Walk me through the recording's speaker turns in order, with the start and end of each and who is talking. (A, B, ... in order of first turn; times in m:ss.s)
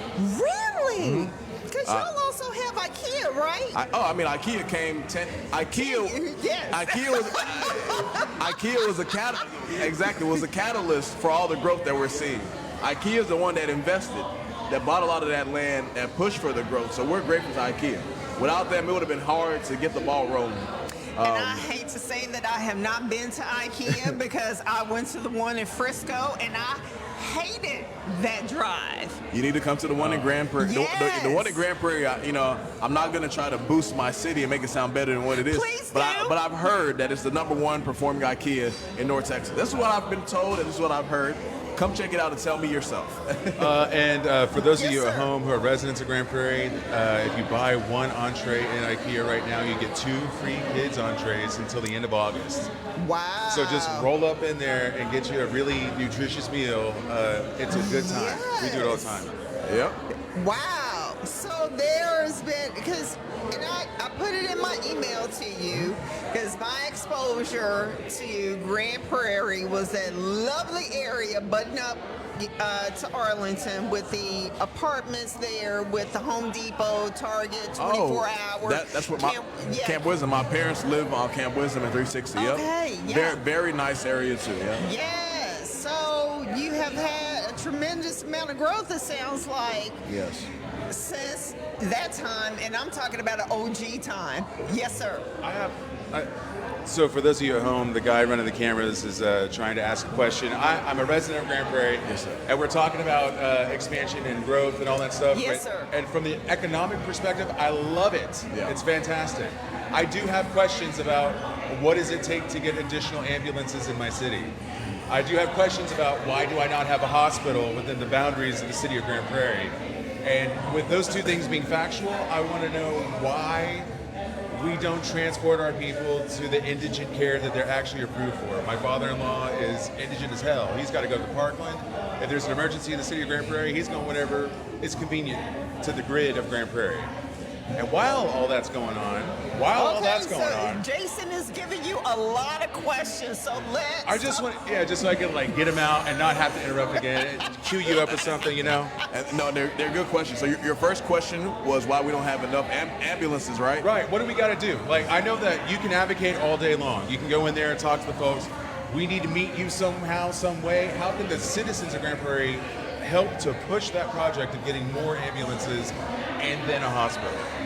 0:00.2-0:03.8 A
0:01.0-0:01.3 B
0:03.7-0:06.2 B
0:05.7-0:08.6 A
0:06.7-0:21.7 B
0:10.0-0:10.4 A
0:21.2-0:29.2 A
0:29.3-0:43.7 B
0:30.0-0:30.3 C
0:30.6-0:31.6 A
0:35.3-0:36.4 A
0:43.6-0:52.7 C
0:44.6-0:45.3 A
0:53.0-0:54.1 A
0:53.5-0:59.3 C
0:57.7-0:59.3 A
0:59.7-1:00.0 B
1:00.3-1:20.0 A
1:17.8-1:24.9 B
1:22.3-1:23.4 A
1:24.8-1:30.0 A
1:30.0-1:30.5 B
1:30.9-1:35.3 A
1:35.4-1:36.3 C
1:36.9-1:54.5 C
1:42.0-1:42.4 B
1:45.3-1:45.9 A
1:48.5-1:48.8 B
1:55.1-2:03.9 C
2:04.5-2:17.1 C
2:17.8-2:20.8 C
2:19.7-2:24.4 A
2:24.0-2:29.0 C
2:27.0-2:28.3 A
2:29.1-2:33.9 B
2:33.8-2:47.5 C